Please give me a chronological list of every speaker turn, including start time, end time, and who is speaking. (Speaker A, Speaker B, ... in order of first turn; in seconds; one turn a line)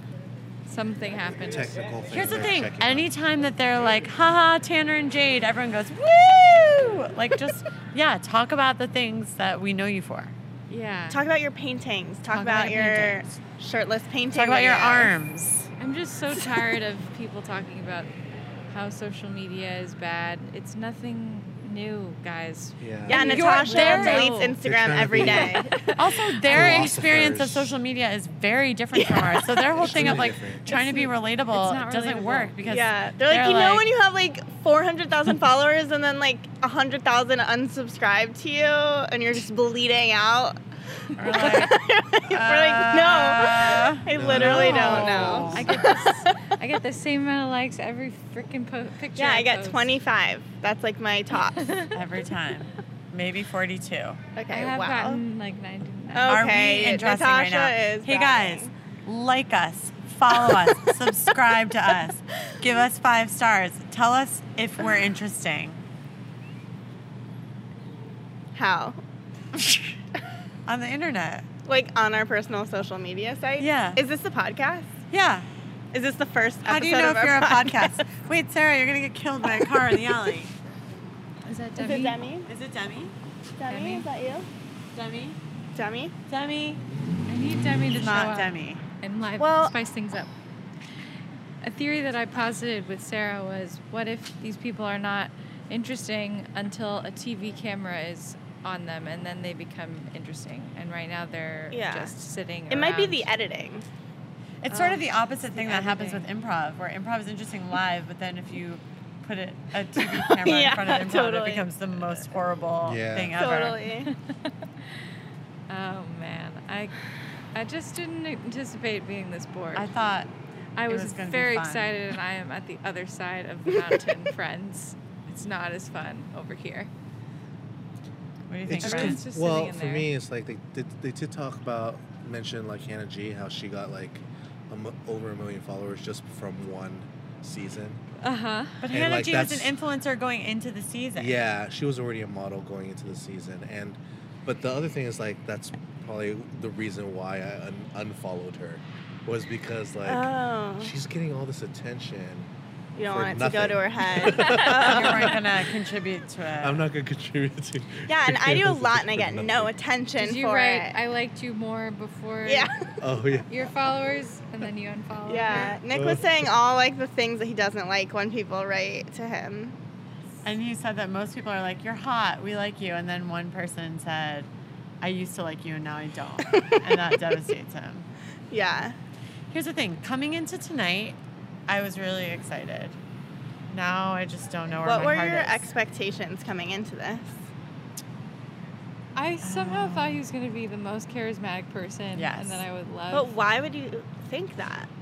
Speaker A: 0.7-1.8
Speaker B: 1.3-3.1
Speaker C: 2.1-10.3
Speaker A: 10.7-11.2
Speaker D: 11.1-15.2
Speaker A: 12.3-13.2
Speaker C: 12.6-13.2
Speaker C: 14.3-15.7
Speaker A: 15.8-18.1
Speaker A: 18.7-24.6
Speaker B: 22.8-23.4
Speaker D: 23.1-25.7
Speaker C: 23.3-24.4
Speaker B: 24.5-25.7
Speaker A: 25.2-26.7
Speaker C: 26.0-33.9
Speaker B: 26.5-27.7
Speaker D: 29.0-30.1
Speaker B: 29.8-30.6
Speaker A: 29.9-32.6
Speaker D: 32.6-40.6
Speaker C: 41.2-41.8
Speaker D: 41.2-46.3
Speaker C: 42.3-45.7
Speaker B: 44.1-45.7
Speaker A: 44.7-45.0
Speaker A: 45.5-49.9
Speaker D: 49.1-51.7
Speaker A: 51.5-51.9
Speaker C: 51.9-54.2
Speaker D: 54.4-55.2
Speaker A: 54.5-56.4
Speaker D: 56.1-58.7
Speaker C: 56.3-65.8
Speaker D: 68.5-69.0
Speaker C: 69.5-69.9
Speaker C: 70.7-71.5
Speaker D: 71.7-74.9
Speaker C: 73.6-74.0
Speaker C: 75.1-75.5
Speaker D: 75.9-78.0
Speaker C: 76.6-80.5
Speaker D: 79.5-79.9
Speaker A: 81.5-82.2
Speaker D: 81.8-82.5
Speaker C: 82.5-83.1
Speaker D: 83.6-84.5
Speaker A: 83.7-84.1
Speaker C: 84.9-85.4
Speaker D: 85.8-86.1
Speaker C: 86.3-86.8
Speaker A: 87.3-90.3
Speaker C: 88.0-88.8
Speaker D: 89.4-89.8
Speaker A: 91.6-103.3
Speaker D: 101.7-102.2
Speaker D: 102.7-103.9
Speaker C: 104.6-113.9
Speaker A: 104.7-106.3
Speaker D: 110.0-111.7
Speaker B: 112.8-113.4
Speaker D: 113.3-114.1
Speaker A: 115.7-117.0
Speaker A: 117.5-120.0
Speaker C: 119.8-120.3
Speaker A: 120.8-126.9
Speaker C: 120.9-121.9
Speaker C: 128.5-129.2
Speaker B: 128.7-138.0
Speaker A: 128.9-130.1
Speaker A: 138.2-138.8
Speaker C: 138.8-141.4
Speaker B: 138.9-139.7
Speaker B: 141.2-152.5
Speaker D: 150.1-150.9
Speaker D: 153.0-155.4
Speaker B: 153.0-155.4
Speaker C: 154.6-156.9
Speaker B: 156.6-159.7
Speaker D: 158.1-161.0
Speaker A: 160.2-162.7
Speaker D: 162.4-162.7
Speaker B: 163.0-163.5
Speaker A: 163.4-165.8
Speaker D: 165.3-169.8
Speaker B: 165.9-166.4
Speaker C: 170.4-174.5
Speaker C: 175.0-178.1
Speaker D: 176.5-177.1
Speaker D: 178.5-179.0
Speaker C: 179.5-183.0
Speaker C: 183.7-185.7
Speaker D: 184.8-187.4
Speaker A: 189.2-193.3
Speaker C: 189.4-190.2
Speaker C: 192.1-192.6
Speaker D: 193.1-194.9